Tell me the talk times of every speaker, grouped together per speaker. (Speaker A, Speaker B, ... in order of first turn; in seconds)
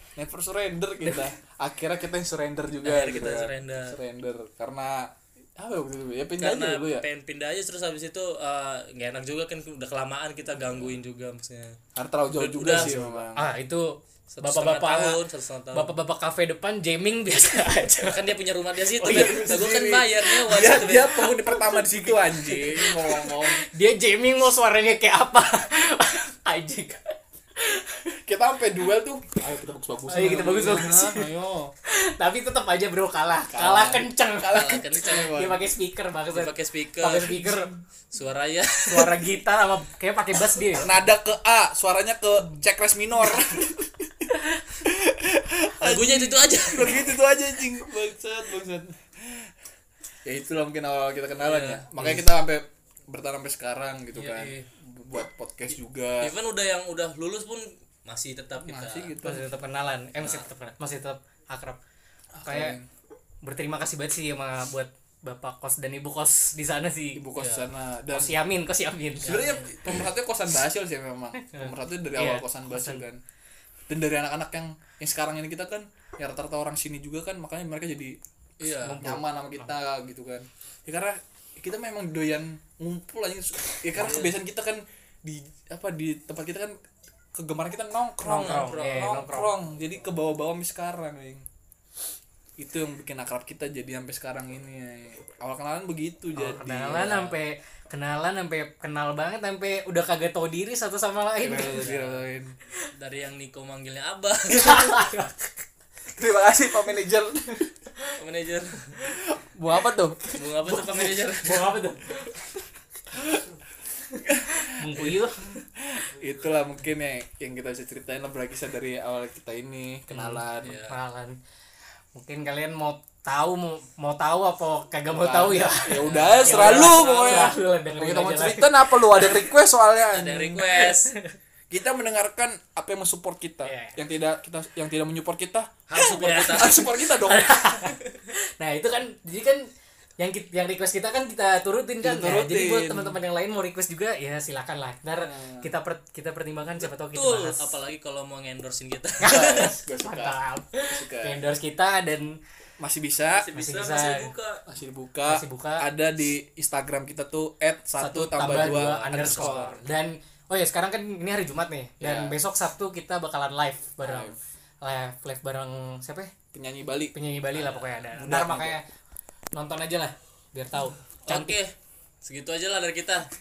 Speaker A: 0.2-7.0, 10.6-11.0, 11.9-13.5, 19.0-23.6, 28.3-31.7, 33.5-35.6, 37.4-37.7, 40.8-44.3, 44.8-49.5, 50.2-56.3, 58.6-59.4, 62.4-62.9, 67.2-68.4, 69.2-73.2, 73.9-78.2, 79.0-86.8, 87.3-91.5, 92.6-97.3, 101.4-102.5, 106.2-107.6, 109.1-111.3, 113.1-113.5, 114.2-115.2, 115.8-120.8, 125.1-130.7, 131.7-135.7, 136.5-137.6, 142.0-143.2, 145.2-145.7, 149.3-151.4, 152.8-153.5, 154.7-159.8, 162.0-162.4, 164.0-164.4, 166.5-167.2, 168.2-168.8
Speaker B: 2.8-4.0, 6.4-11.8, 12.3-13.2, 14.3-15.9, 18.1-21.3, 30.2-31.0, 34.5-35.3, 36.3-37.5, 38.1-39.2, 45.8-47.1, 51.4-52.2, 54.1-54.7, 56.2-59.1, 60.2-60.5, 67.4-67.7, 69.2-69.8, 78.6-79.0, 84.0-84.3, 88.3-89.3, 101.6-102.2, 103.0-105.0, 108.2-109.0, 110.3-111.7, 120.6-121.0, 126.0-127.6, 130.1-131.1, 135.9-136.9, 146.8-149.7, 153.3-154.6, 158.7-159.7, 167.5-168.0, 171.3-173.3
Speaker C: 12.7-15.2, 15.7-18.2, 21.5-28.1, 30.1-31.3, 31.9-37.7, 38.9-40.9, 44.4-44.6, 59.2-61.8, 62.5-62.8, 63.4-67.2, 68.1-69.5, 71.4-73.0, 78.8-79.3, 88.2-89.5, 96.4-101.8, 104.5-105.5, 111.4-112.3, 114.1-115.6, 120.1-121.4, 122.2-129.5, 130.8-131.3, 133.6-134.0, 135.9-147.7, 149.2-152.4, 153.5-154.3, 155.3-155.9, 158.0-166.3, 167.1-168.8, 169.5-171.6